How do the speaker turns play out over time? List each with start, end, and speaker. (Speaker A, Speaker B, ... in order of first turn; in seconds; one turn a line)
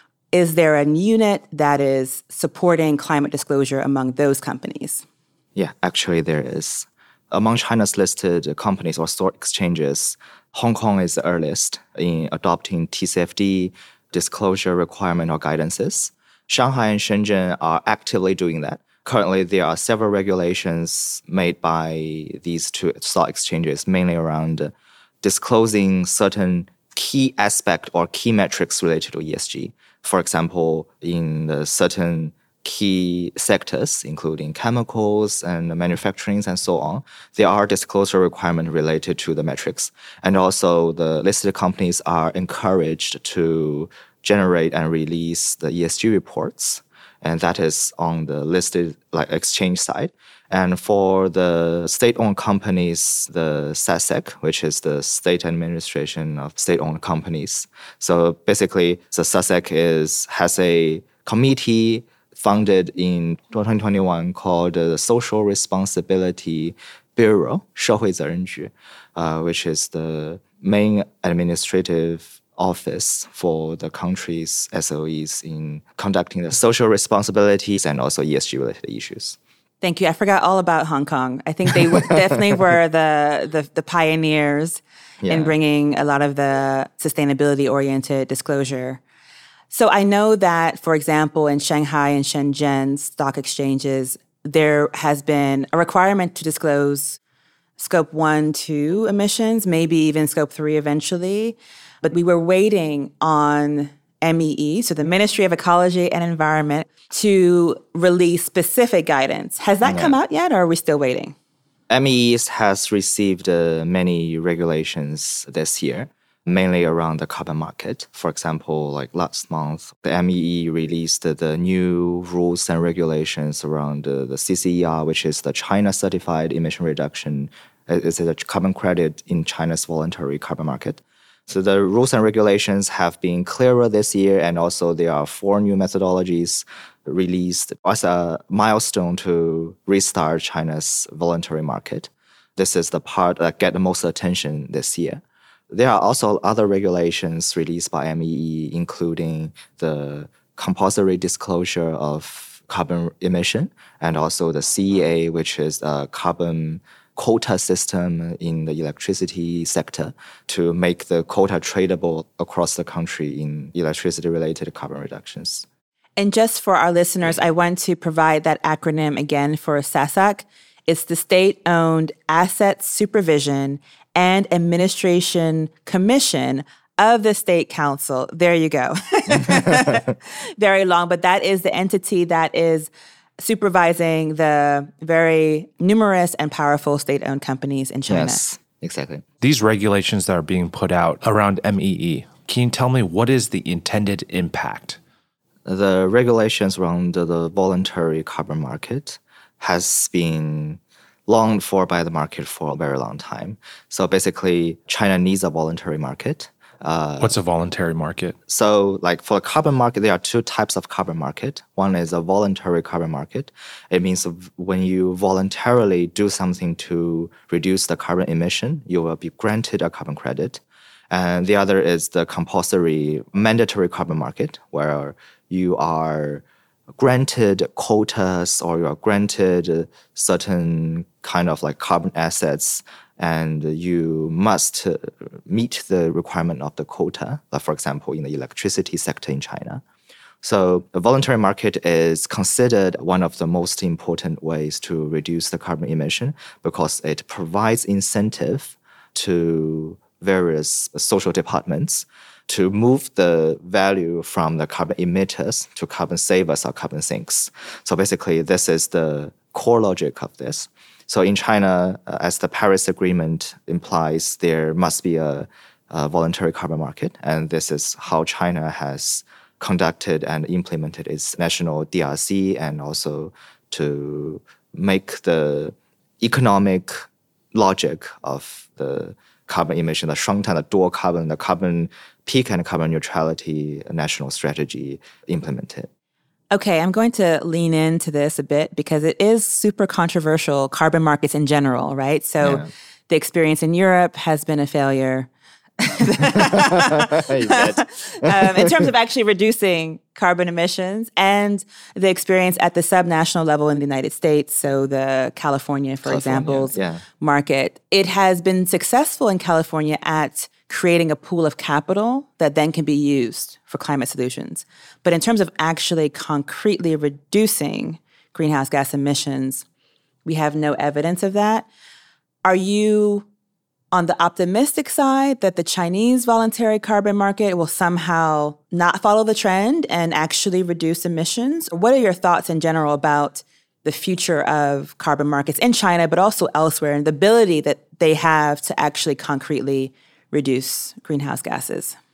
Speaker A: 0.3-5.0
Speaker B: 5.5-79.4
Speaker A: 79.8-89.0
Speaker B: 81.9-82.3
Speaker B: 85.2-85.5
Speaker A: 89.7-97.2
Speaker A: 97.8-111.3
Speaker B: 109.8-110.2
Speaker B: 111.9-165.7
Speaker A: 166.2-188.4
Speaker B: 179.4-180.0
Speaker B: 188.1-189.2
Speaker C: 189.4-195.0
Speaker B: 195.7-207.3
Speaker C: 207.2-208.4
Speaker B: 208.5-226.4
Speaker B: 227.0-239.8
Speaker B: 240.4-285.9
Speaker A: 286.5-319.6
Speaker B: 292.4-292.7
Speaker B: 296.6-298.8
Speaker B: 306.1-307.0
Speaker A: 320.2-321.7
Speaker A: 322.4-323.3
Speaker A: 323.9-341.9